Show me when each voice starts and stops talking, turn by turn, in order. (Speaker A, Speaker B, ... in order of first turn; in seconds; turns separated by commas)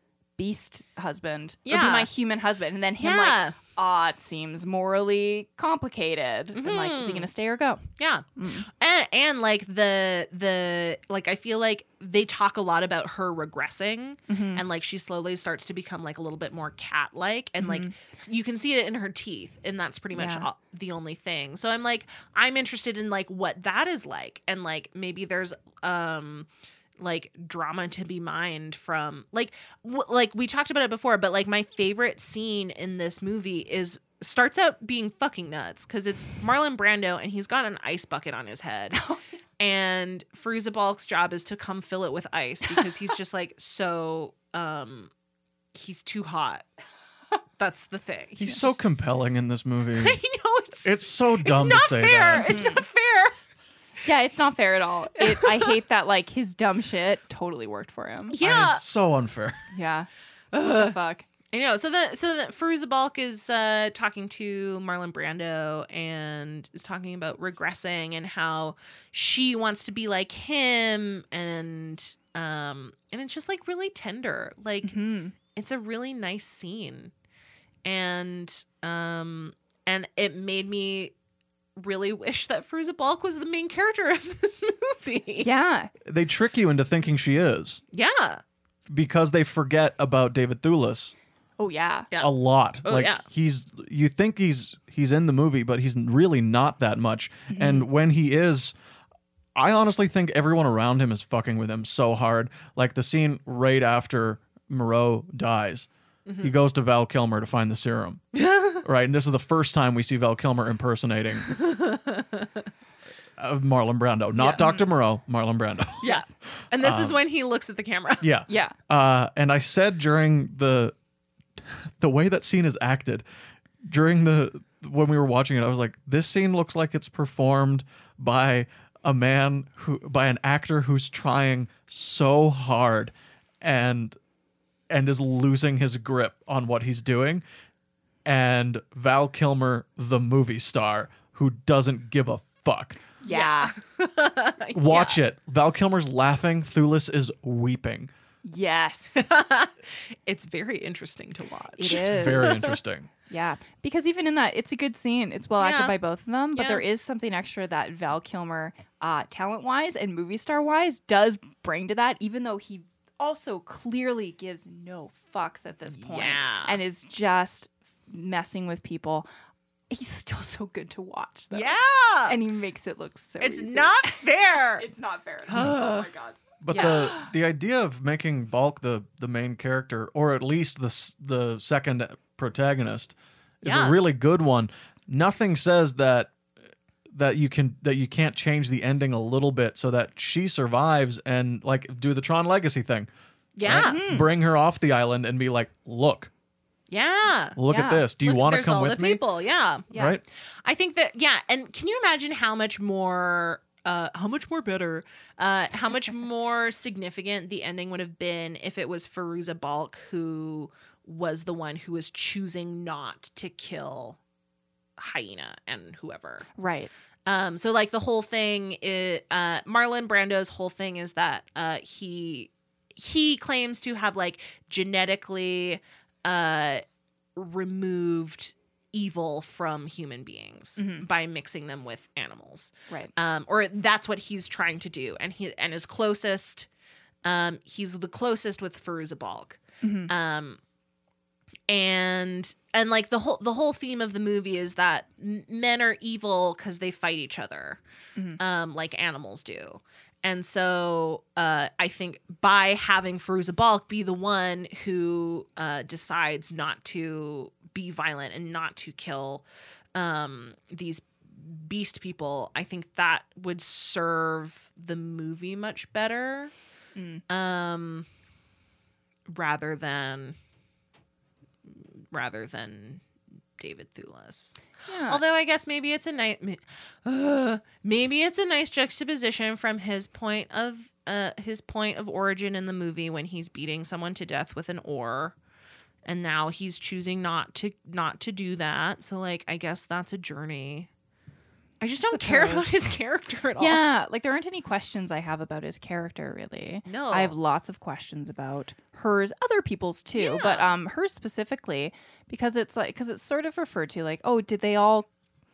Speaker A: 0.4-8.7, Speaker B: 1.6-2.1, Speaker B: 3.0-3.5, Speaker B: 6.5-7.3, Speaker B: 8.0-39.0, Speaker A: 14.3-14.6, Speaker A: 17.6-17.9, Speaker A: 20.1-20.5, Speaker A: 38.9-39.2, Speaker B: 39.6-45.1, Speaker B: 45.7-46.6, Speaker B: 47.6-48.8, Speaker C: 48.4-50.2, Speaker B: 49.9-53.3, Speaker C: 50.8-52.5, Speaker A: 52.5-52.8, Speaker A: 54.0-58.4, Speaker B: 55.1-55.8, Speaker B: 58.3-58.8, Speaker C: 58.4-59.6, Speaker A: 59.7-61.2, Speaker B: 60.5-60.9, Speaker B: 61.5-77.1, Speaker A: 74.8-75.3, Speaker B: 77.8-81.1, Speaker B: 81.8-85.5, Speaker A: 85.4-85.9, Speaker C: 86.0-87.8, Speaker B: 87.9-88.4, Speaker C: 88.9-91.1, Speaker A: 91.6-92.1, Speaker C: 92.2-98.7, Speaker B: 92.8-93.2, Speaker A: 97.5-97.9, Speaker C: 99.5-105.9, Speaker B: 106.2-106.5, Speaker C: 106.4-108.2, Speaker B: 108.3-108.8, Speaker C: 108.8-111.5, Speaker B: 111.5-112.7, Speaker C: 113.4-116.1, Speaker A: 114.4-114.9, Speaker A: 116.0-116.3, Speaker B: 116.0-118.2, Speaker C: 116.8-117.2, Speaker C: 118.2-120.9, Speaker A: 118.5-118.8, Speaker C: 121.7-123.2, Speaker C: 123.8-134.2, Speaker C: 134.9-137.4, Speaker C: 138.2-143.0, Speaker A: 143.2-143.7, Speaker B: 143.2-145.2, Speaker C: 144.7-148.1, Speaker A: 148.4-149.2, Speaker B: 149.1-152.8, Speaker A: 151.8-152.7, Speaker C: 151.9-153.1, Speaker A: 153.3-169.3, Speaker B: 155.6-155.9, Speaker B: 156.5-156.8, Speaker B: 165.9-166.8, Speaker A: 169.9-171.7, Speaker B: 171.5-172.4, Speaker A: 172.3-174.2, Speaker B: 173.4-174.9, Speaker A: 174.8-177.3, Speaker B: 175.5-176.1, Speaker C: 176.6-186.3, Speaker B: 176.7-177.1, Speaker B: 183.6-184.0, Speaker C: 187.1-193.1, Speaker B: 193.6-194.0, Speaker C: 193.6-196.3, Speaker A: 193.7-194.3, Speaker B: 196.9-197.6, Speaker C: 197.6-199.2, Speaker A: 197.7-198.1, Speaker B: 198.2-199.9, Speaker A: 199.9-200.2, Speaker C: 199.9-200.2, Speaker B: 200.6-214.2, Speaker B: 215.0-216.5, Speaker A: 216.5-216.9, Speaker B: 217.2-226.8, Speaker B: 227.3-236.7, Speaker A: 230.8-231.1, Speaker B: 237.2-240.6, Speaker A: 239.8-240.1, Speaker B: 241.7-247.8, Speaker B: 248.4-266.5, Speaker A: 266.9-267.2, Speaker B: 267.3-268.1, Speaker B: 269.3-270.4, Speaker B: 271.6-273.0, Speaker B: 273.6-285.4, Speaker A: 274.9-275.2, Speaker B: 286.0-290.9, Speaker B: 291.8-293.8, Speaker A: 292.0-292.7, Speaker A: 293.6-305.1, Speaker B: 296.9-297.3, Speaker B: 300.2-300.7